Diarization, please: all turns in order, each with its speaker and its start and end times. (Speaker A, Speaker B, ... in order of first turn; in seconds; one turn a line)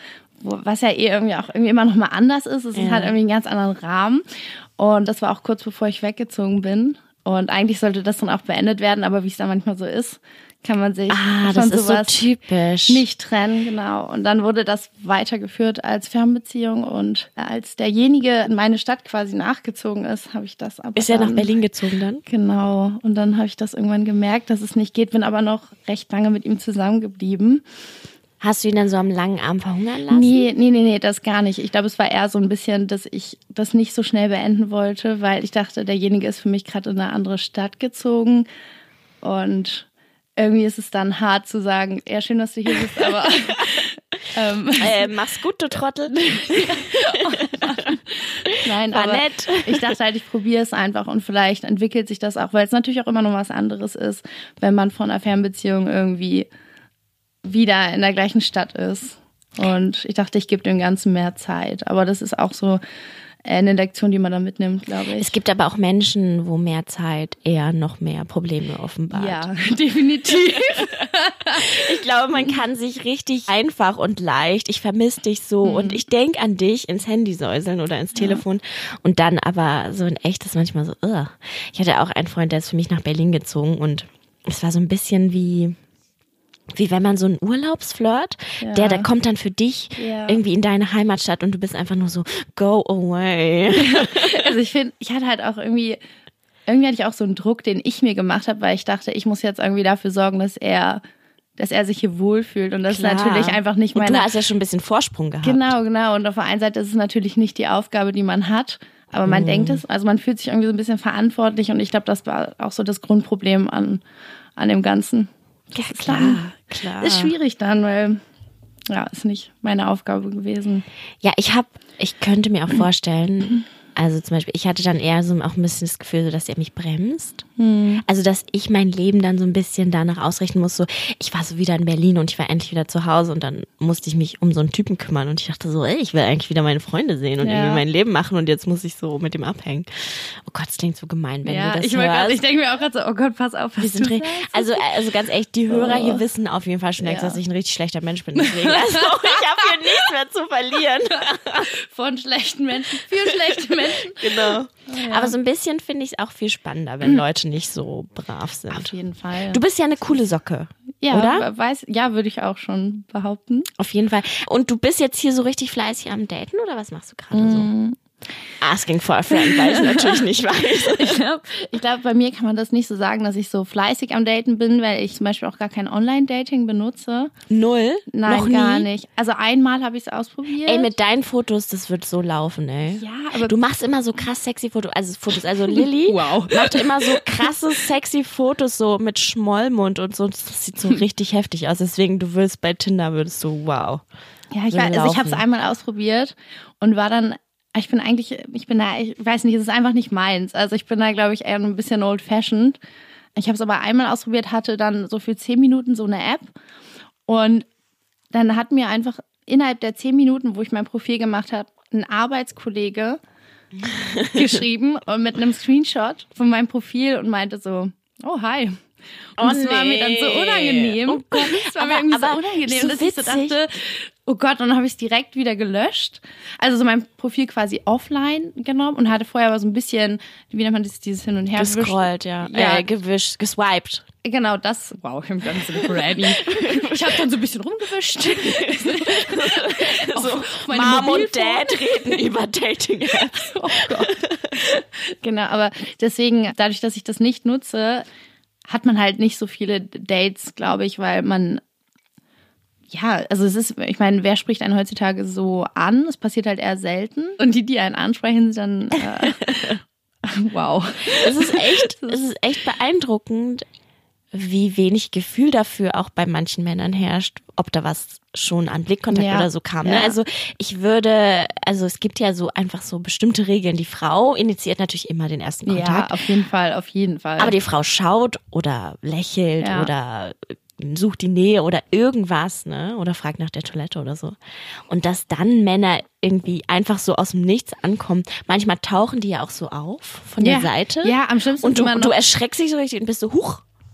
Speaker A: 0.4-4.2
Speaker B: 2.7-3.2
Speaker A: 4.8-12.2
Speaker B: 11.1-13.0
Speaker A: 12.9-21.5
Speaker B: 21.0-22.2
Speaker A: 22.3-27.6
Speaker B: 28.4-30.5
Speaker A: 30.1-38.5
Speaker A: 39.2-45.1
Speaker B: 44.8-49.9
Speaker A: 46.4-56.5
Speaker A: 57.4-62.8
Speaker A: 63.4-65.3
Speaker B: 65.2-69.5
Speaker A: 69.1-71.9
Speaker B: 70.5-70.9
Speaker B: 71.6-85.8
Speaker A: 75.6-76.0
Speaker A: 78.2-78.4
Speaker B: 86.8-94.5
Speaker A: 88.6-89.1
Speaker A: 90.0-90.4
Speaker A: 93.8-96.0
Speaker A: 96.7-101.0
Speaker A: 101.6-104.3
Speaker B: 102.9-105.8
Speaker A: 105.4-114.0
Speaker B: 109.3-109.8
Speaker A: 114.6-116.4
Speaker B: 115.7-117.3
Speaker A: 117.0-118.2
Speaker A: 118.9-120.8
Speaker B: 121.2-127.4
Speaker A: 127.6-128.0
Speaker B: 128.1-142.4
Speaker A: 137.4-137.8
Speaker A: 141.4-144.8
Speaker B: 143.8-151.7
Speaker A: 145.7-146.2
Speaker A: 147.0-147.4
Speaker A: 148.4-149.9
Speaker A: 151.6-155.4
Speaker B: 153.3-158.9
Speaker A: 158.7-159.6
Speaker B: 159.5-161.5
Speaker A: 161.0-163.7
Speaker B: 163.8-167.7
Speaker A: 167.3-168.0
Speaker B: 168.6-171.2
Speaker A: 169.3-170.2
Speaker A: 170.8-177.3
Speaker B: 177.5-178.9
Speaker A: 178.1-180.9
Speaker B: 180.6-194.0
Speaker A: 182.9-183.6
Speaker A: 185.7-187.5
Speaker A: 194.5-202.8
Speaker B: 194.7-195.4
Speaker A: 203.3-206.5
Speaker A: 207.3-207.7
Speaker A: 208.3-213.2
Speaker B: 213.8-214.4
Speaker A: 214.3-218.8
Speaker B: 219.4-223.6
Speaker A: 219.4-232.9
Speaker B: 231.6-234.1
Speaker A: 234.2-242.2
Speaker B: 235.7-237.2
Speaker B: 238.3-244.6
Speaker A: 243.1-248.1
Speaker A: 248.7-251.6
Speaker A: 252.9-262.2
Speaker B: 259.3-259.6
Speaker B: 261.1-263.7
Speaker B: 264.3-276.1
Speaker A: 269.1-270.2
Speaker A: 275.7-277.5
Speaker B: 277.4-284.4
Speaker A: 279.6-279.9
Speaker B: 284.9-293.6
Speaker A: 290.4-292.1